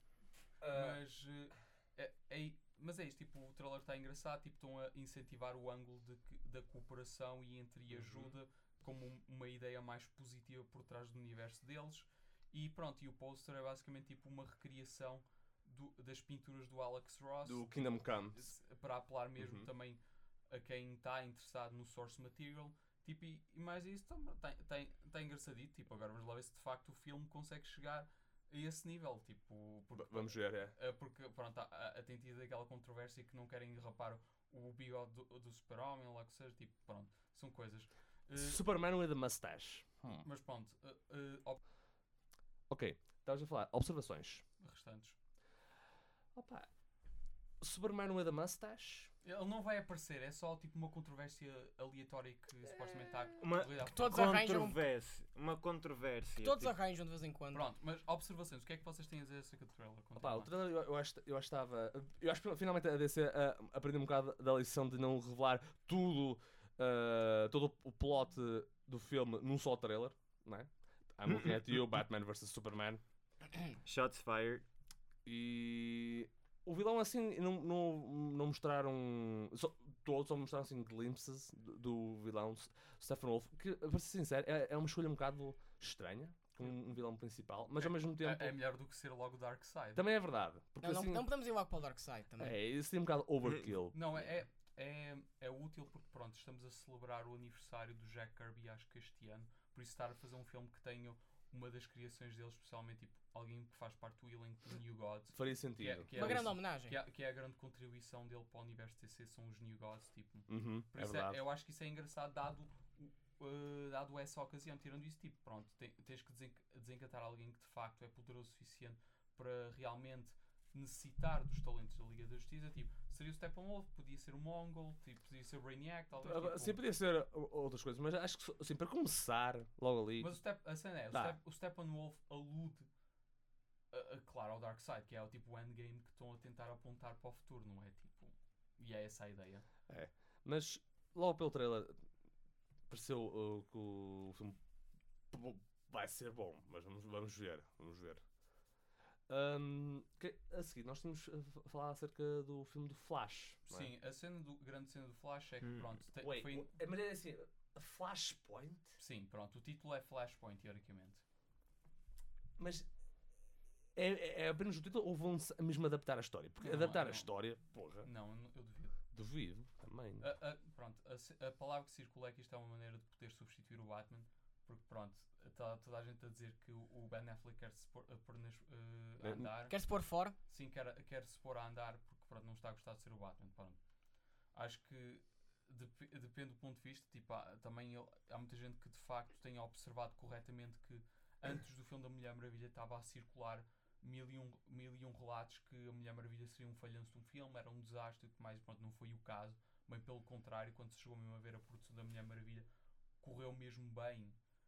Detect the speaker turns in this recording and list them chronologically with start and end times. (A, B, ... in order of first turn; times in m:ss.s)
0:00.6-0:01.0 A
0:00.7-0:17.7 B
0:07.9-0:08.3 A
0:17.4-0:18.5 A
0:18.3-0:38.6 B
0:19.4-0:19.7 A
0:29.9-0:30.7 A
0:38.4-0:40.3 A
0:40.2-0:41.6 B
0:42.7-0:44.4 A
0:44.6-0:45.2 B
0:46.3-0:46.7 A
0:47.6-0:49.1 A
0:49.2-0:54.2 B
0:52.6-0:53.3 A
0:53.4-0:56.7 C
0:53.9-0:54.8 D
0:56.4-0:57.7 D
0:57.5-1:00.5 B
1:00.2-1:13.0 A
1:13.8-1:14.6 C
1:15.2-1:28.6 A
1:27.8-1:30.0 B
1:29.9-1:31.3 A
1:30.8-1:32.5 D
1:32.4-1:34.2 A
1:33.9-2:06.8 B
1:45.3-1:46.5 A
1:46.1-1:47.0 D
1:50.5-1:51.4 A
2:06.2-2:10.4 A
2:10.2-2:12.9 B
2:11.1-2:11.4 A
2:13.9-2:19.6 B
2:19.9-2:22.0 A
2:22.9-2:24.6 A
2:25.3-2:28.2 A
2:29.3-2:33.9 A
2:33.6-2:36.8 B
2:36.2-2:39.0 A
2:39.0-2:41.2 B
2:42.6-2:42.9 A
2:44.0-2:48.1 A
2:46.6-2:47.3 B
2:48.0-2:49.0 B
2:49.1-2:50.3 A
2:50.2-2:59.7 B
2:59.2-2:59.5 A
2:59.7-3:00.4 D
3:00.4-3:03.8 B
3:04.5-3:22.7 B
3:23.2-3:24.4 B